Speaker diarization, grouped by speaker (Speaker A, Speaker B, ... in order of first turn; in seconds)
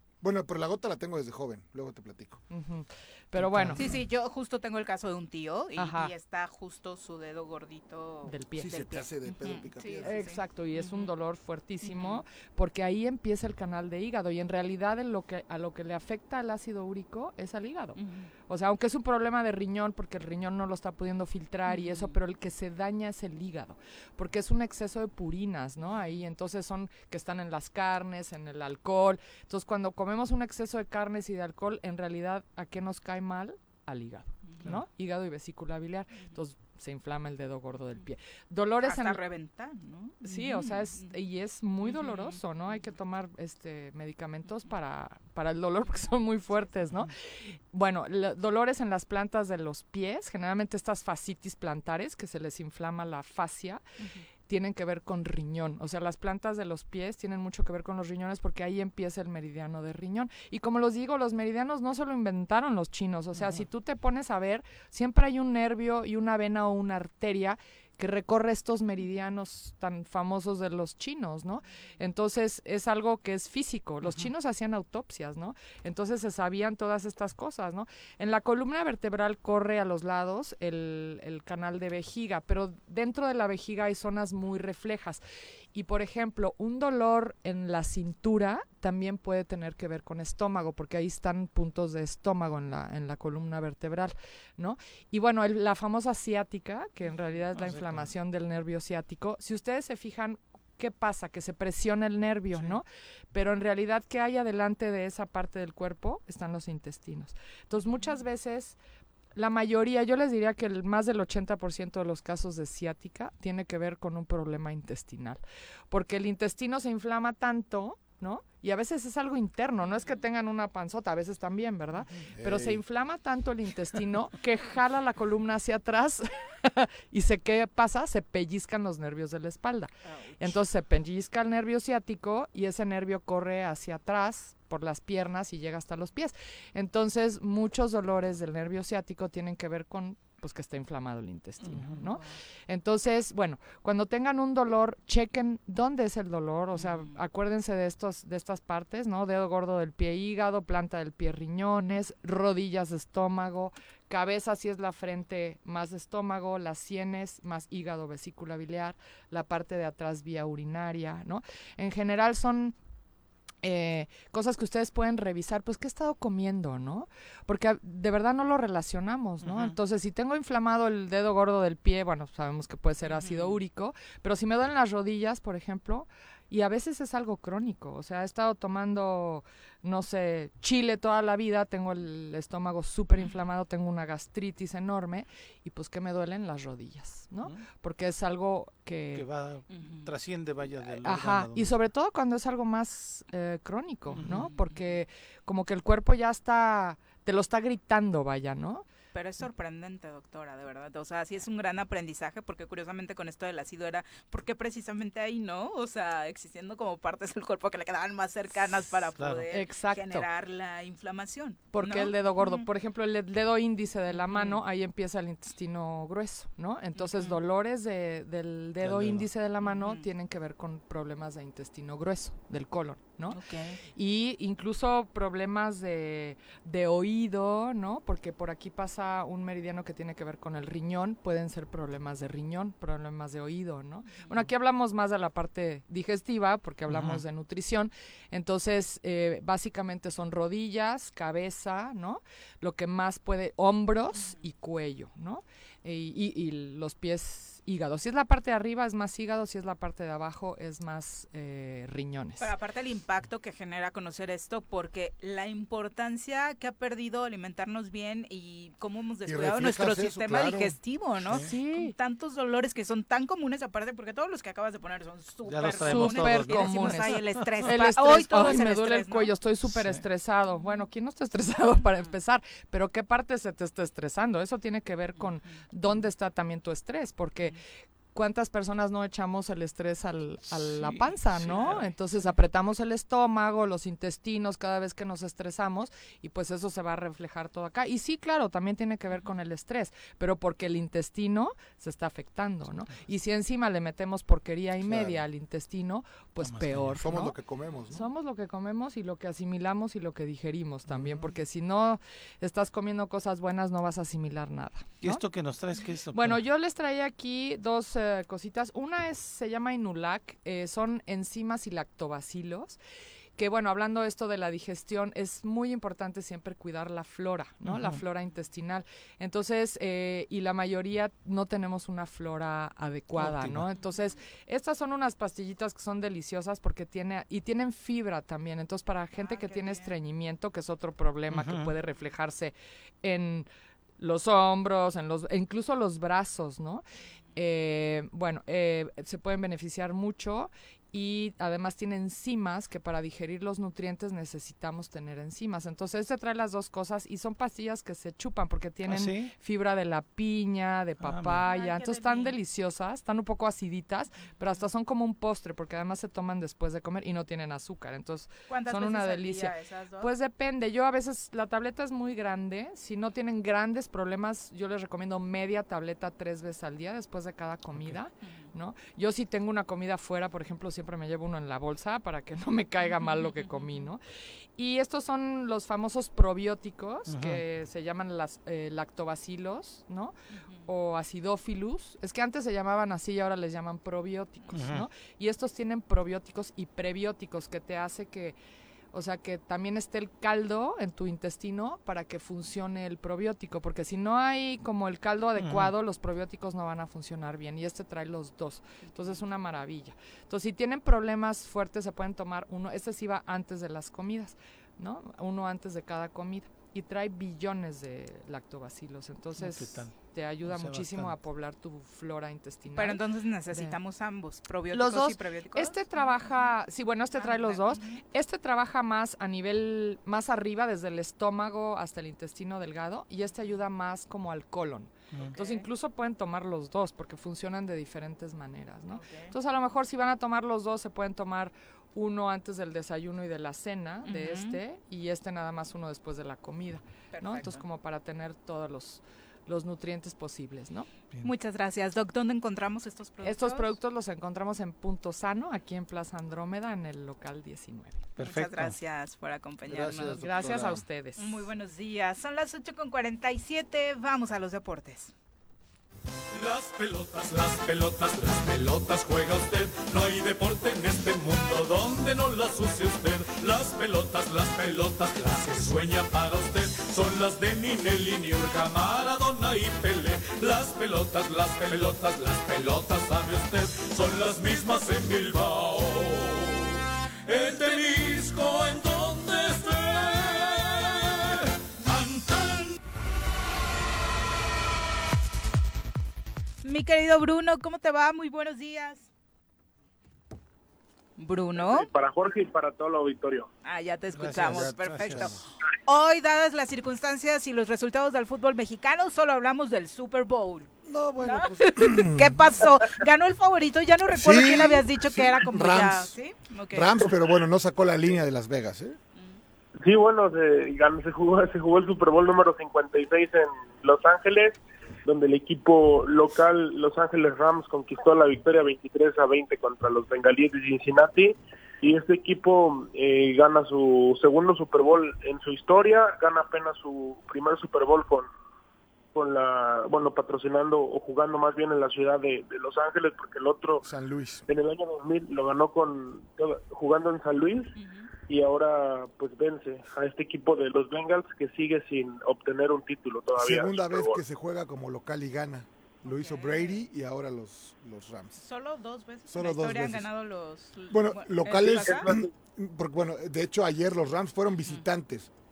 Speaker A: 0.2-2.5, 8.6-10.2, 122.3-122.8, 259.2-260.8, 294.8-295.2, 297.0-298.1, 300.9-301.2, 449.7-450.8, 494.4-495.4, 500.8-502.4, 504.1-506.1, 506.7-509.0, 533.8-534.5, 543.4-548.4, 549.3-550.1, 550.9-555.3
Speaker B: 2.5-4.0, 5.8-6.1, 8.3-8.8, 10.0-39.2, 40.2-53.8, 54.5-85.2, 85.7-108.8, 109.3-162.8, 163.6-189.2, 190.9-198.8, 209.5-210.2, 211.7-223.4, 223.9-252.5, 261.3-261.9, 265.8-277.6, 278.1-297.3, 297.9-305.2, 306.1-312.8, 313.4-333.5, 334.0-336.8, 337.3-374.0, 374.6-380.1, 380.6-388.4, 388.9-413.8, 414.7-440.9, 443.2-448.1, 450.1-451.4
Speaker C: 3.4-3.8, 63.4-63.6, 97.5-98.1, 102.5-102.8, 141.6-142.0, 169.4-169.8, 189.1-191.8, 194.1-194.5, 209.2-209.4, 218.8-219.3, 236.9-237.2, 265.4-267.2, 269.6-270.0, 280.5-281.9, 292.6-293.0, 296.4-297.1, 305.0-306.4, 317.6-318.0, 323.1-323.7, 331.3-331.7, 348.9-349.3, 351.0-351.4, 377.1-377.4, 384.5-384.9, 395.4-395.7, 409.4-411.1, 448.1-448.8, 494.1-495.4
Speaker D: 3.8-11.1, 11.8-12.2, 17.9-18.3, 21.7-22.2, 25.9-26.2, 38.8-41.1, 41.8-42.9, 44.5-44.7, 46.5-46.8, 107.9-108.2, 119.9-120.2, 130.0-130.6, 141.9-142.3, 146.7-147.2, 173.0-173.6, 189.7-190.1, 194.2-195.0, 199.1-212.7, 214.1-214.6, 217.0-217.4, 219.6-220.1, 223.3-223.8, 234.1-234.4, 244.1-244.4, 252.4-269.3, 270.5-270.8, 323.8-324.1, 329.1-329.9, 351.4-352.4, 358.5-360.1, 368.2-368.5, 372.8-373.9, 380.3-380.7, 412.7-416.3, 417.1-418.0, 425.3-425.7, 428.9-429.3, 434.0-434.6, 437.1-437.6, 441.2-443.8, 448.2-450.5, 451.2-455.1, 486.6-489.1, 491.2-491.9, 493.6-500.7, 501.2-507.0, 509.1-509.4, 537.7-538.1, 546.0-546.8, 548.3-552.1
Speaker E: 456.3-482.7
Speaker F: 491.6-493.5, 509.8-528.3, 529.1-533.8, 534.5-537.7, 538.3-544.2, 551.8-552.2